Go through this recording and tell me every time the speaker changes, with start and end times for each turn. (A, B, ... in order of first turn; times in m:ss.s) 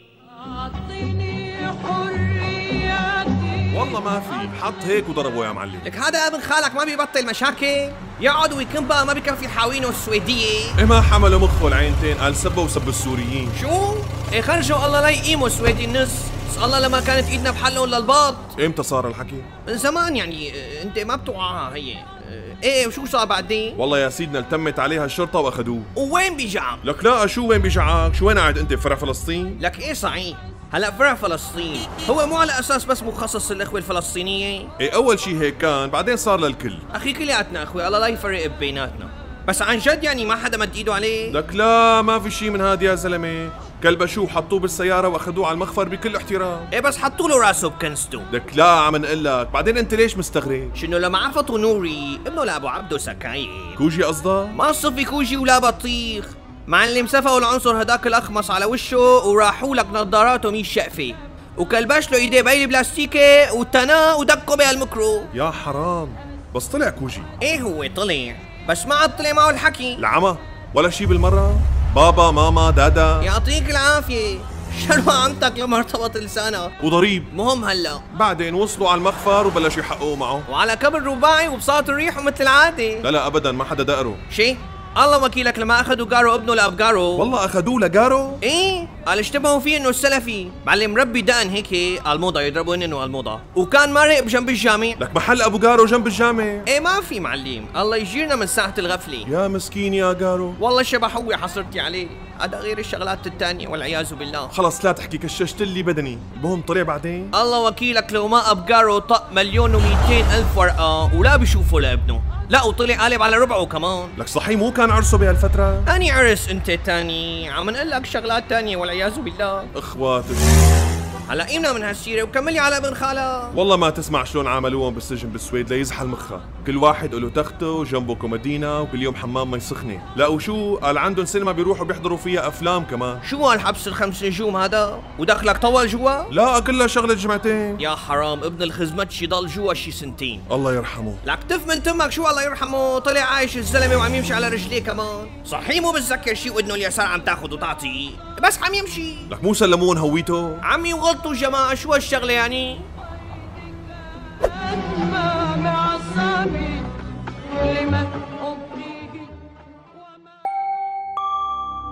0:00.7-0:03.5 A
0:03.7-0:05.9 B
0:05.8-0:10.8 A
0:10.8-0:13.6 B
0:13.5-0:18.5 A
0:18.6-0:19.5 B
0:19.6-0:23.8 A
0:23.8-0:25.9 B
0:26.0-0:26.8 A
0:26.8-0:29.6 B
0:29.6-0:34.7 A
0:34.8-0:36.8 B
0:36.9-0:41.4 A
0:41.3-0:46.7 B
0:46.7-0:48.3 A
0:48.3-0:50.7 B
0:50.7-0:53.8 A
0:53.8-0:54.6 B
0:54.5-1:05.3 A
1:05.3-1:07.3 B
1:07.4-1:10.0 A
1:10.0-1:13.3 B
1:13.2-1:16.7 A
1:16.8-1:17.3 B
1:17.3-1:18.0 A
1:18.1-1:20.4 B
1:20.5-1:23.1 A
1:23.0-1:24.2 B
1:24.3-1:27.3 A
1:27.2-1:28.4 B
1:28.4-1:35.0 A
1:35.0-1:36.7 B
1:36.6-1:39.3 A
1:39.2-1:40.6 B
1:40.6-1:44.5 A
1:44.5-1:47.3 B
1:47.3-1:54.2 A
1:54.2-1:55.9 B
1:55.8-1:59.7 A
1:59.7-2:00.6 B
2:01.3-2:03.6 A
2:03.5-2:13.2 B
2:13.2-2:16.3 A
2:16.3-2:17.8 B
2:17.8-2:20.4 A
2:20.5-2:21.2 B
2:21.2-2:29.3 A
2:29.3-2:30.6 B
2:30.6-2:32.9 A
2:35.0-2:36.8 C
2:37.7-2:38.2 C